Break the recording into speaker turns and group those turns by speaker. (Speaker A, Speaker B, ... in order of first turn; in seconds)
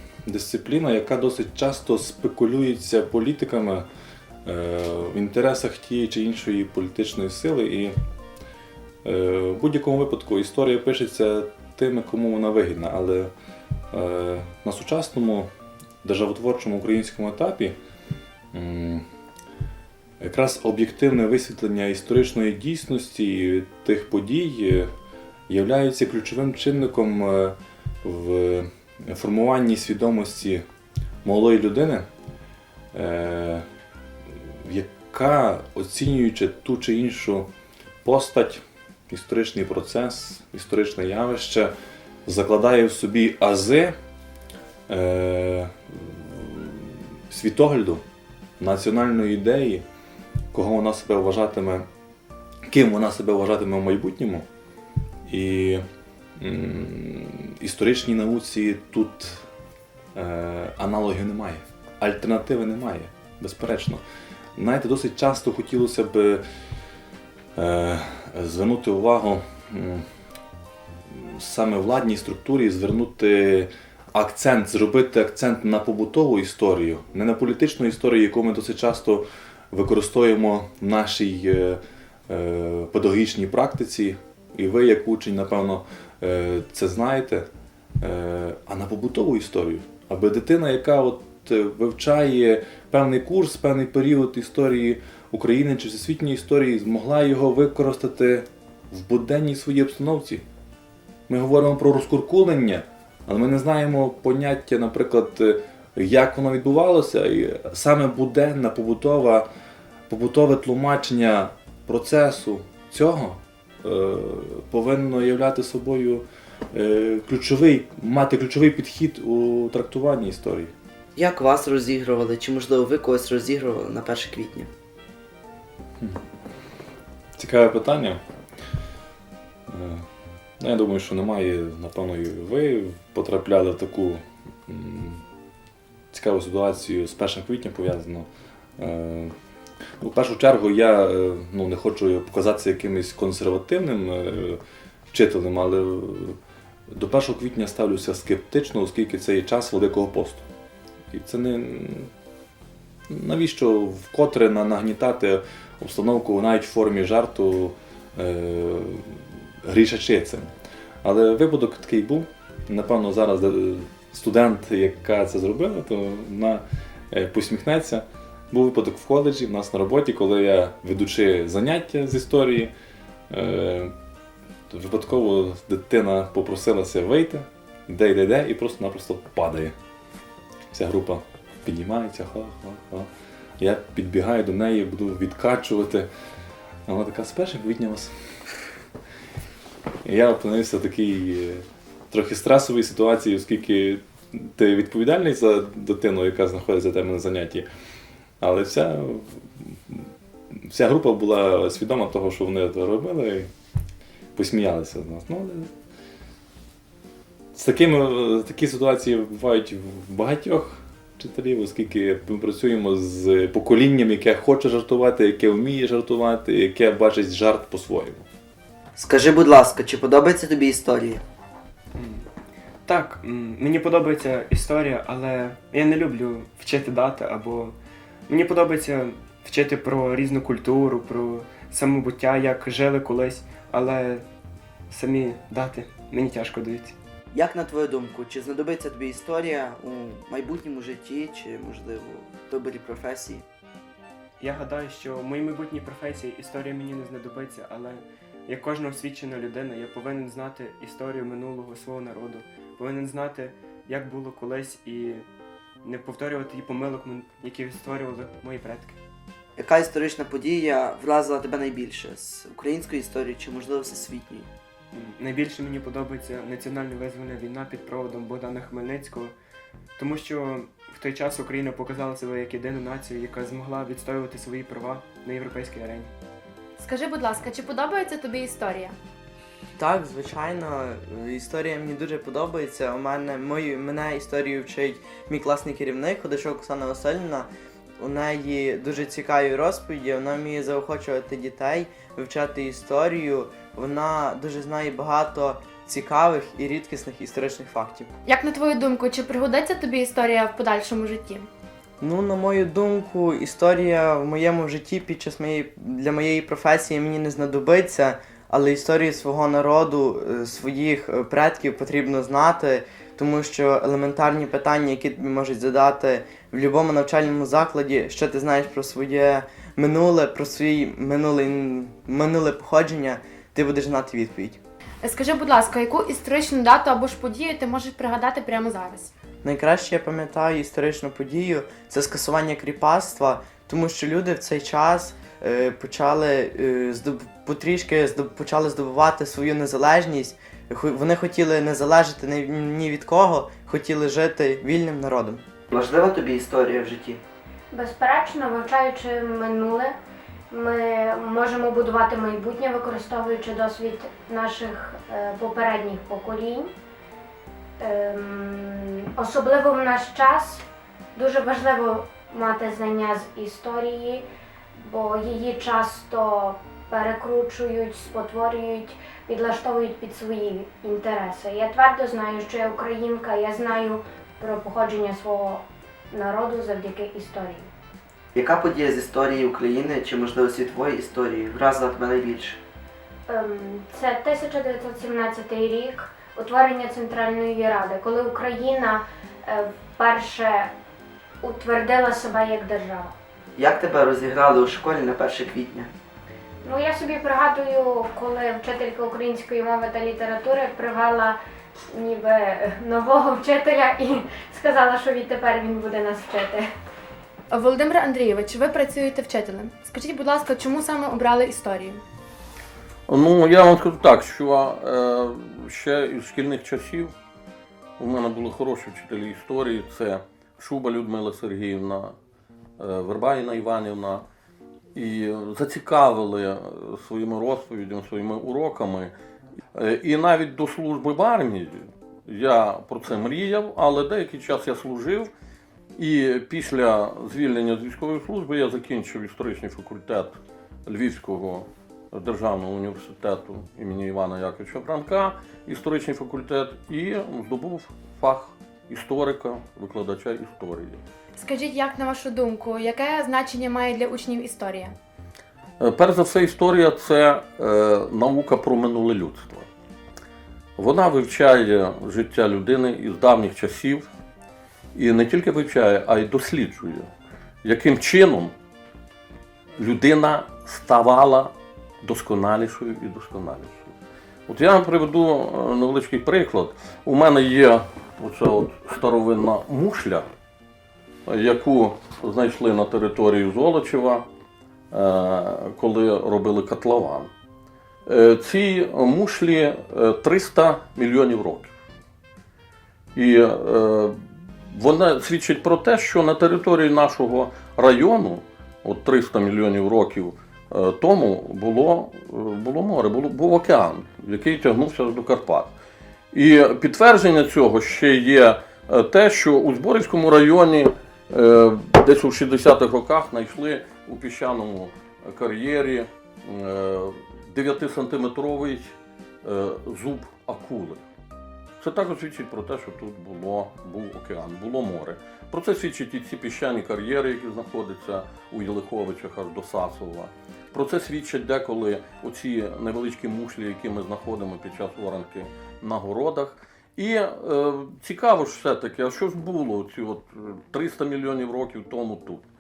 Speaker A: 0.3-3.9, 4.5-7.9, 9.0-13.3, 13.9-15.5, 16.0-17.8, 18.5-19.0, 20.2-24.9, 25.5-30.6, 31.2-32.0, 32.9-33.6, 34.6-37.5, 38.0-41.7, 42.2-43.9, 44.9-48.0, 48.6-49.8, 50.5-51.8, 52.7-54.5, 55.2-55.8, 56.4-59.4, 60.1-64.0, 64.6-66.4, 67.6-70.0, 71.1-87.4, 88.0-100.4, 101.3-109.5, 110.1-120.7, 127.4-128.2, 129.7-130.0, 130.6-135.2, 136.1-139.3, 140.0-144.6, 145.1-146.4, 146.9-150.4, 151.1-152.1, 153.1-160.5, 161.0-172.7, 173.3-173.9, 174.7-179.7, 180.7-183.1, 183.6-186.1, 186.9-188.1, 190.1-197.7, 198.4-200.1, 200.6-203.5, 204.4-205.7, 207.6-218.2
Speaker B: 121.2-124.7, 218.9-221.2, 237.3-243.4, 259.6-264.5, 345.7-347.2, 378.4-382.6, 393.6-395.9
Speaker C: 221.9-222.2, 222.9-227.8, 228.3-234.2, 234.9-237.0, 244.4-255.2, 255.8-259.0, 264.9-269.4, 270.0-276.1
Speaker D: 276.8-278.9, 298.2-301.5, 325.0-329.1, 407.5-412.0, 451.4-454.9
Speaker E: 279.8-298.1, 302.0-324.6, 329.4-345.4
Speaker F: 347.7-349.9, 350.5-356.7, 357.8-360.6, 361.1-364.2, 364.8-377.7, 383.3-390.7, 391.4-393.1, 396.6-401.4, 401.9-406.7
Speaker G: 413.1-417.1, 418.0-422.1, 422.8-424.2, 424.9-429.1, 429.8-435.3, 436.0-451.0, 455.8-459.7, 460.8-464.1, 464.9-467.1, 467.6-468.5, 469.8-473.9, 474.5-480.3, 481.3-484.2, 484.9-487.3, 488.1-491.7, 493.1-505.7, 506.3-521.0, 521.8-542.4